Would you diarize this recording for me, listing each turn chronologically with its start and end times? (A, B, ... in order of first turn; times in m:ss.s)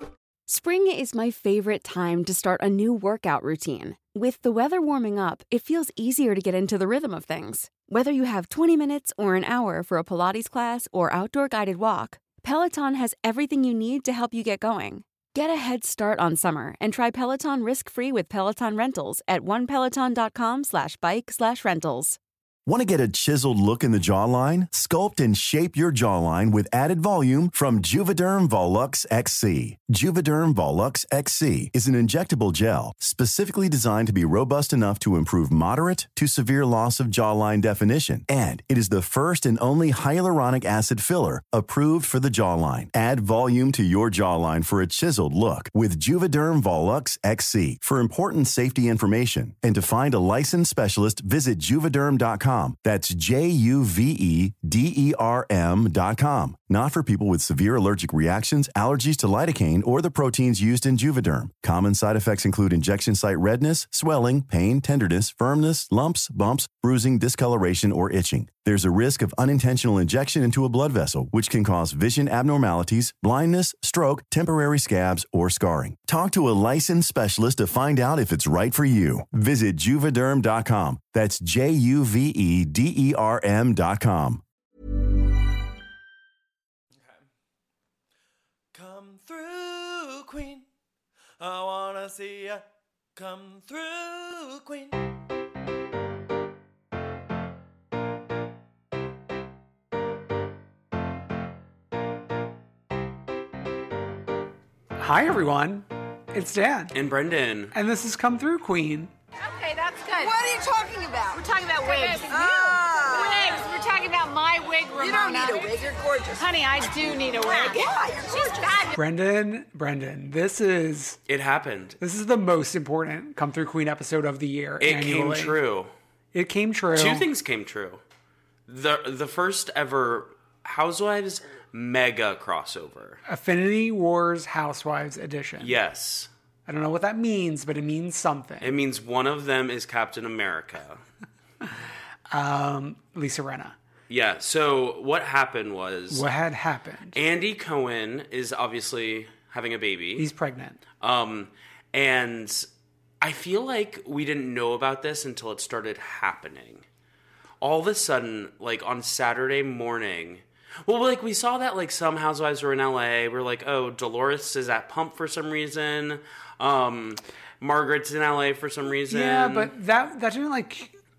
0:00.5-0:22.2 A
0:22.7-1:24.4 B
1:28.7-1:30.7 C
1:31.4-1:32.6 C
1:33.2-1:35.0 C
1:45.0-1:46.9 D
1:46.9-1:47.8 E
1:47.7-1:49.1 D
1:49.4-1:50.6 F
1:50.3-1:51.4 G
1:51.3-1:57.9 F
1:52.5-1:53.2 G
1:55.3-1:56.3 G
1:57.9-1:58.6 G
1:58.5-1:58.9 F
1:59.0-2:01.2 D
2:01.3-2:02.0 E
2:02.0-2:05.6 D
2:04.8-2:05.9 E
2:06.3-2:07.2 D
2:07.0-2:08.0 E
2:08.7-2:13.2 E
2:13.3-2:15.7 D
2:15.6-2:16.3 E
2:16.7-2:18.8 D
2:18.6-2:21.0 E
2:22.3-2:23.8 D
2:24.1-2:26.2 E
2:26.1-2:27.2 D
2:27.1-2:30.3 E
2:30.2-2:30.8 D
2:31.0-2:32.7 E
2:33.2-2:36.8 E
2:37.6-2:49.7 E
2:49.1-2:51.0 D